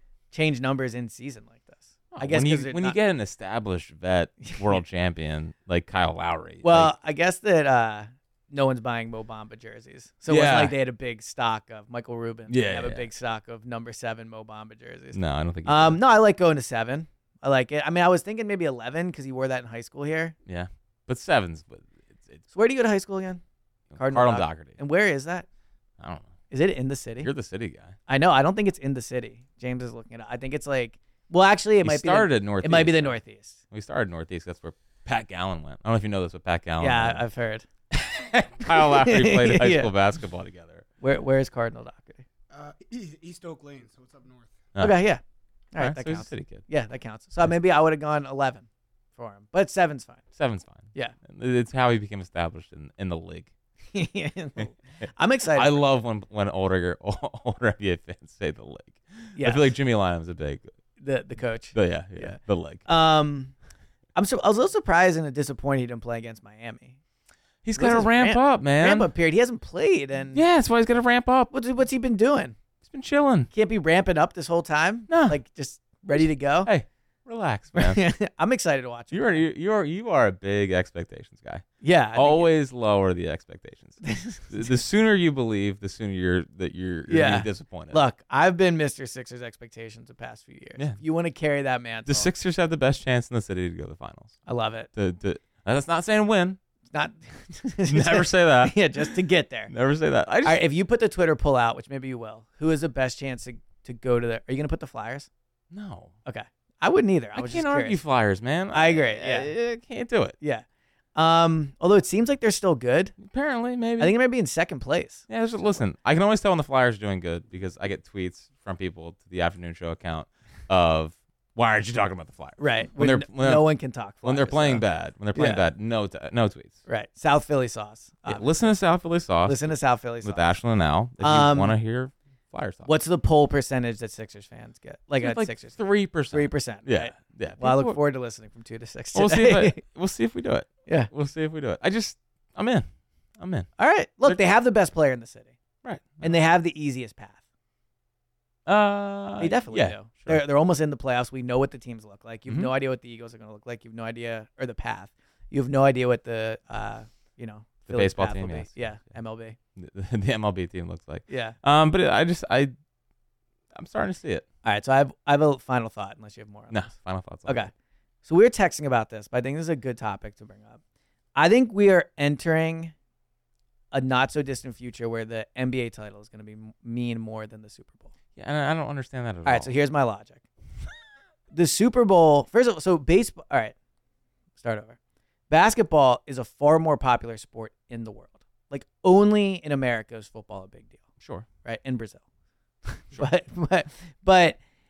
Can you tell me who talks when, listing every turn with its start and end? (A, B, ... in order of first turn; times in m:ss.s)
0:00.3-0:03.0 A
0:02.1-0:06.9 B
0:04.4-0:04.8 A
0:06.6-0:20.4 A
0:10.3-0:10.8 B
0:12.5-0:13.1 B
0:15.1-0:16.0 B
0:20.5-0:22.4 B
0:22.5-0:23.4 A
0:23.9-0:24.8 B
0:24.0-0:25.5 A
0:26.0-0:26.3 B
0:26.5-0:27.3 A
0:27.2-0:28.0 B
0:28.1-0:33.6 A
0:31.8-0:33.2 B
0:33.7-0:37.2 B
0:36.8-0:37.6 A
0:37.9-0:40.8 B
0:38.7-0:39.9 A
0:41.0-0:42.2 A
0:42.5-0:44.7 C
0:44.8-0:50.2 A
0:45.8-0:46.6 B
0:50.4-0:53.5 B
0:53.9-0:55.8 A
0:55.5-1:00.7 B
0:59.4-0:59.7 A
1:01.0-1:03.5 A
1:01.7-1:02.8 B
1:04.2-1:07.0 A
1:07.6-1:09.1 B
1:07.8-1:10.4 A
1:10.3-1:11.5 B
1:11.5-1:12.6 A
1:12.8-1:13.5 B
1:13.5-1:16.7 A
1:15.1-1:15.4 B
1:16.2-1:18.0 B
1:17.7-1:19.4 A
1:19.1-1:28.0 B
1:21.8-1:22.5 A
1:24.0-1:24.5 A
1:27.1-1:32.3 A
1:32.1-1:34.4 B
1:34.5-1:34.9 A
1:35.0-1:36.6 B
1:36.9-1:39.7 A
1:37.9-1:39.1 B
1:39.7-1:40.6 B
1:40.4-1:45.3 A
1:45.7-1:46.1 B
1:46.3-1:48.0 A
1:47.4-1:50.4 B
1:48.7-1:49.5 A
1:51.2-1:53.2 A
1:53.2-1:54.1 B
1:54.0-1:55.3 A
1:55.3-2:03.6 B
2:02.6-2:05.6 A
2:04.2-2:06.8 B
2:06.9-2:08.6 A
2:08.3-2:12.9 B
2:09.5-2:10.5 A
2:11.2-2:11.8 A
2:12.8-2:15.8 A
2:15.2-2:18.0 B
2:16.3-2:19.8 A
2:19.1-2:22.9 B
2:23.4-2:23.7 B
2:23.8-2:25.6 A
2:25.8-2:26.4 B
2:26.2-2:27.4 A
2:28.7-2:30.4 B
2:29.4-2:39.6 A
2:37.9-2:38.8 B
2:39.8-2:42.7 B
2:41.3-2:41.6 A
2:43.7-2:44.4 B
2:44.6-2:46.9 A
2:46.7-2:47.7 B
2:47.5-2:47.7 A
2:48.2-2:50.8 A
2:51.4-2:52.9 A
2:53.9-2:58.1 A
2:58.4-2:59.7 B
2:59.4-3:00.4 A
3:01.5-3:03.8 A
3:04.6-3:05.0 A
3:05.5-3:11.0 A
3:11.2-3:11.5 B
3:11.6-3:12.2 A
3:13.0-3:14.6 A